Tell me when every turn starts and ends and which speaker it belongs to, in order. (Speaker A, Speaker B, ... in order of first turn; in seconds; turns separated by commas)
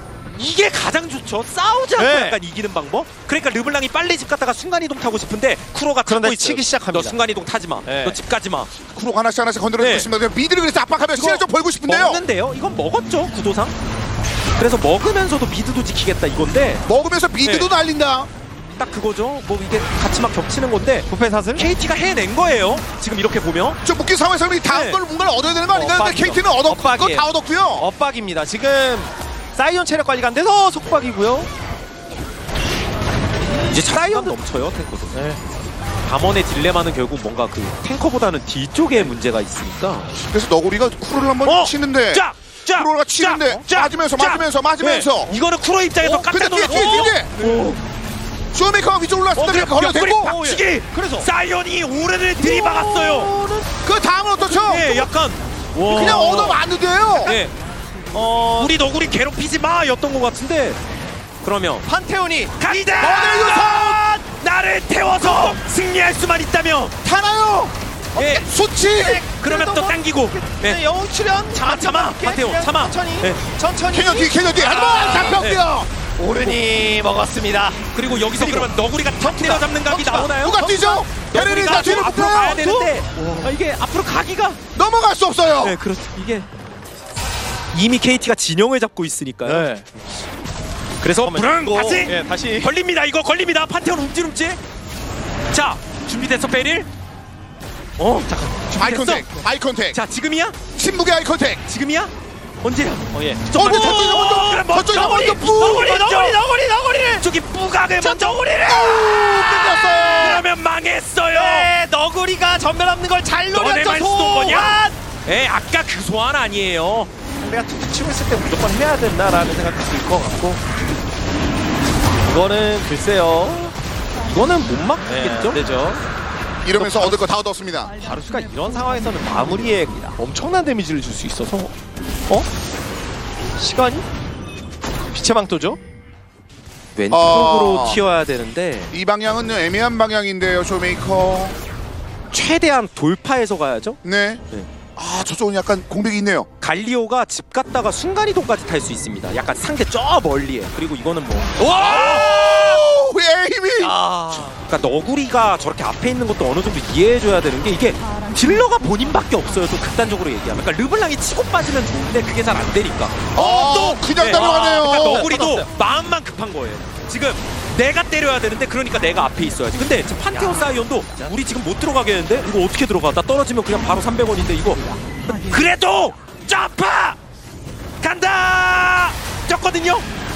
Speaker A: 0.3-8.7, Speaker B: 1.9-2.4, Speaker B: 6.0-7.2, Speaker B: 7.8-8.2, Speaker C: 8.9-12.2, Speaker A: 9.8-10.1, Speaker A: 11.1-13.7, Speaker A: 14.6-16.8, Speaker C: 16.9-18.3, Speaker A: 17.4-17.7, Speaker A: 18.8-23.8, Speaker B: 21.1-21.7, Speaker C: 23.8-27.9, Speaker A: 24.7-25.0, Speaker B: 25.7-31.5, Speaker A: 33.7-35.2, Speaker B: 33.8-34.4, Speaker B: 35.1-35.4, Speaker A: 36.0-40.1, Speaker C: 40.2-45.3, Speaker A: 41.4-47.8, Speaker B: 46.0-47.8, Speaker C: 46.1-47.3, Speaker C: 48.5-50.3, Speaker B: 49.4-51.3, Speaker A: 49.4-53.3, Speaker B: 52.4-53.7, Speaker C: 53.8-55.1, Speaker A: 54.4-56.5, Speaker B: 55.8-56.6, Speaker C: 55.9-57.3, Speaker A: 57.2-57.5, Speaker B: 58.1-58.7, Speaker A: 58.6-60.8, Speaker A: 61.4-61.9, Speaker B: 61.8-63.1, Speaker A: 62.6-67.0, Speaker C: 62.9-64.0, Speaker B: 63.7-64.2, Speaker B: 65.0-65.6, Speaker C: 67.0-69.2, Speaker A: 68.1-68.5, Speaker B: 68.2-75.5, Speaker A: 69.4-70.8, Speaker A: 71.5-73.4, Speaker C: 73.9-75.9, Speaker A: 75.3-75.6, Speaker B: 76.2-80.3, Speaker A: 77.9-84.6, Speaker C: 79.9-82.6, Speaker B: 82.6-83.5, Speaker C: 84.7-85.8, Speaker A: 85.6-86.5, Speaker A: 87.7-89.7, Speaker B: 89.4-89.8, Speaker A: 91.0-94.6, Speaker B: 91.2-92.7, Speaker A: 95.5-96.9, Speaker A: 98.0-99.4, Speaker C: 98.7-100.0, Speaker A: 99.9-100.6, Speaker C: 100.7-101.6, Speaker A: 101.7-106.4, Speaker B: 103.1-107.2, Speaker C: 103.5-105.8, Speaker A: 107.1-108.5, Speaker B: 108.0-110.5, Speaker C: 108.7-109.9, Speaker A: 109.7-111.7, Speaker B: 111.3-115.0, Speaker A: 113.5-117.1, Speaker B: 117.4-120.6, Speaker B: 122.2-126.0, Speaker A: 125.0-125.6, Speaker C: 126.6-127.9, Speaker B: 126.7-127.2, Speaker B: 128.0-131.7, Speaker B: 133.6-134.0, Speaker B: 135.1-135.8, Speaker A: 136.9-138.9, Speaker C: 137.1-138.0, Speaker C: 138.9-141.6, Speaker A: 142.3-144.0, Speaker C: 144.0-144.4, Speaker C: 144.9-146.5, Speaker A: 146.6-152.5, Speaker C: 151.6-153.9, Speaker B: 151.6-152.1, Speaker B: 153.8-154.6, Speaker A: 154.3-177.2, Speaker C: 163.3-165.3, Speaker B: 164.2-165.7, Speaker B: 170.3-171.3, Speaker A: 178.0-180.1